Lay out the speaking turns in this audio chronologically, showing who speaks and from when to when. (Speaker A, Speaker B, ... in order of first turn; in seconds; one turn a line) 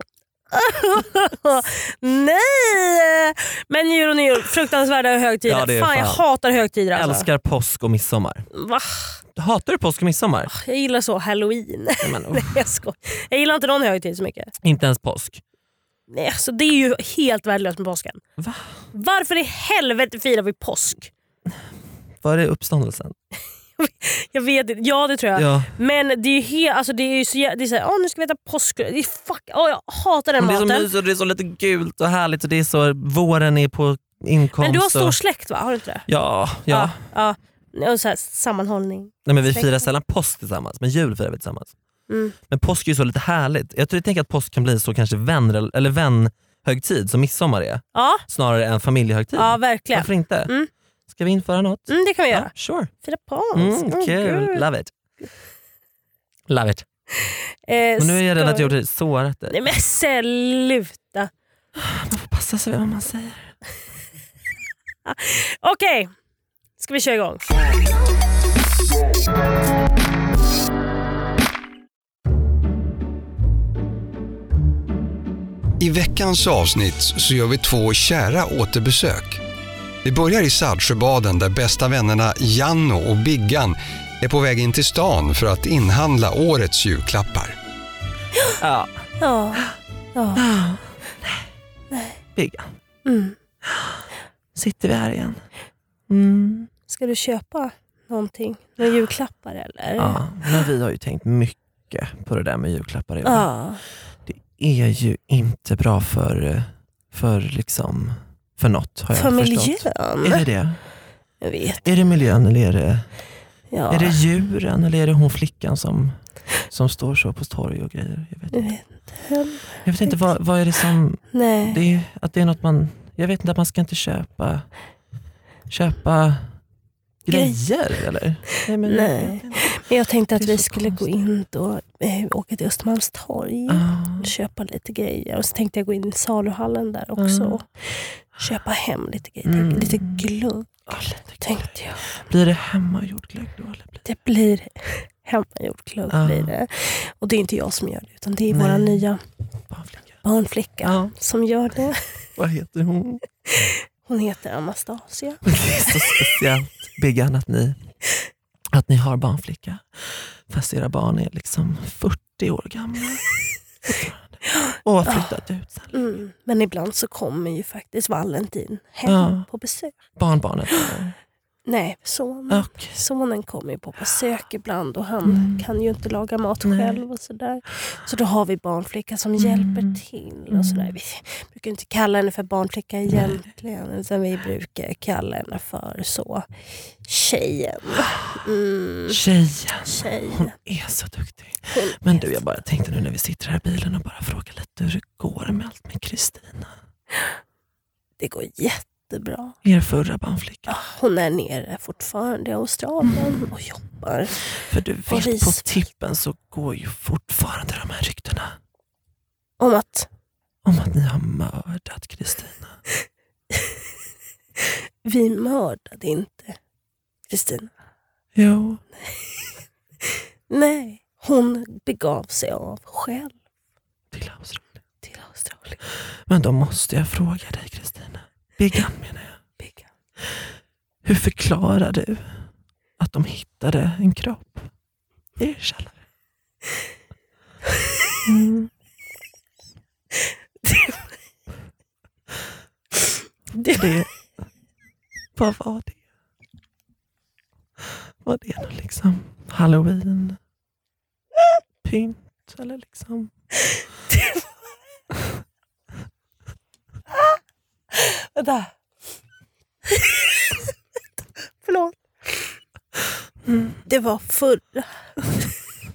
Speaker A: 0.5-7.2
Speaker B: 5.5-6.2
Speaker B: 6.9-8.5
Speaker A: 8.5-9.2
Speaker B: 9.3-10.5
Speaker A: 10.5-14.5
Speaker B: 12.0-12.7
Speaker B: 14.6-15.4
Speaker A: 16.1-18.2
Speaker B: 18.4-18.8
Speaker A: 18.9-21.1
Speaker B: 22.2-23.1
Speaker A: 23.8-30.9
Speaker B: 25.4-25.7
Speaker B: 30.4-35.1
Speaker A: 34.6-36.1
Speaker B: 36.1-37.0
Speaker A: 36.7-39.9
Speaker B: 39.2-41.7
Speaker A: 42.1-42.3
Speaker B: 42.5-50.5
Speaker A: 47.9-48.2
Speaker A: 49.4-50.7
Speaker B: 51.1-52.9
Speaker A: 51.9-52.5
Speaker A: 53.0-54.6
Speaker B: 53.5-54.9
Speaker B: 56.5-56.8
Speaker A: 57.2-58.7
Speaker B: 58.0-59.6
Speaker A: 59.5-61.3
Speaker B: 61.8-63.5
Speaker A: 65.0-66.1
Speaker A: 66.8-67.4
Speaker C: 75.8-79.4
Speaker C: 80.0-87.5
Speaker B: 88.6-89.0
Speaker A: 89.2-90.4
Speaker B: 90.3-91.5
Speaker A: 91.9-92.2
Speaker B: 92.3-92.8
Speaker A: 93.0-93.3
Speaker B: 93.7-93.9
Speaker B: 94.5-95.4
Speaker B: 96.1-96.7
Speaker A: 96.9-100.7
Speaker B: 100.0-103.5
Speaker A: 103.2-103.8
Speaker B: 104.3-110.8
Speaker A: 109.1-110.4
Speaker A: 111.4-111.8
Speaker B: 111.8-113.1
Speaker A: 113.7-114.2
Speaker B: 113.9-118.7
Speaker A: 118.5-120.3
Speaker B: 119.8-124.7
Speaker A: 121.3-121.8
Speaker B: 125.7-126.6
Speaker B: 127.2-131.1
Speaker A: 127.3-127.6
Speaker A: 128.8-140.7
Speaker B: 133.7-134.3
Speaker B: 137.2-137.6
Speaker B: 139.4-140.2
Speaker B: 140.9-144.0
Speaker A: 141.4-142.1
Speaker A: 144.0-149.2
Speaker B: 146.1-146.5
Speaker B: 148.5-149.1
Speaker B: 149.7-150.2
Speaker A: 150.2-152.0
Speaker B: 150.8-151.1
Speaker B: 152.4-153.2
Speaker A: 153.6-156.2
Speaker B: 155.4-157.8
Speaker B: 158.7-165.9
Speaker A: 164.6-165.3
Speaker A: 165.9-170.0
Speaker B: 169.1-169.5
Speaker B: 170.1-171.1
Speaker A: 171.7-186.4
Speaker B: 172.5-173.0
Speaker B: 175.2-175.6
Speaker B: 176.6-177.0
Speaker B: 179.4-180.9
Speaker B: 183.1-183.4
Speaker A: 187.0-189.2
Speaker B: 189.1-196.7
Speaker A: 189.8-190.5
Speaker A: 191.7-192.3
Speaker A: 198.2-199.6
Speaker B: 199.6-200.8
Speaker A: 200.7-204.4
Speaker B: 204.6-208.6
Speaker A: 205.1-205.7
Speaker A: 209.6-210.1
Speaker B: 210.6-212.8
Speaker A: 215.0-216.6
Speaker A: 217.3-217.7
Speaker B: 218.3-218.8
Speaker A: 220.5-223.3
Speaker B: 224.1-224.7
Speaker A: 225.0-225.8
Speaker B: 226.3-229.4
Speaker A: 229.6-229.9
Speaker B: 231.0-232.4
Speaker B: 233.0-234.7
Speaker B: 235.4-236.0
Speaker B: 238.2-238.7
Speaker A: 243.6-243.8
Speaker B: 243.7-244.1
Speaker B: 245.3-245.9
Speaker B: 248.2-250.4
Speaker B: 251.8-253.3
Speaker A: 254.1-254.4
Speaker A: 257.9-258.7
Speaker A: 261.6-262.6
Speaker B: 263.5-263.8
Speaker A: 263.9-264.9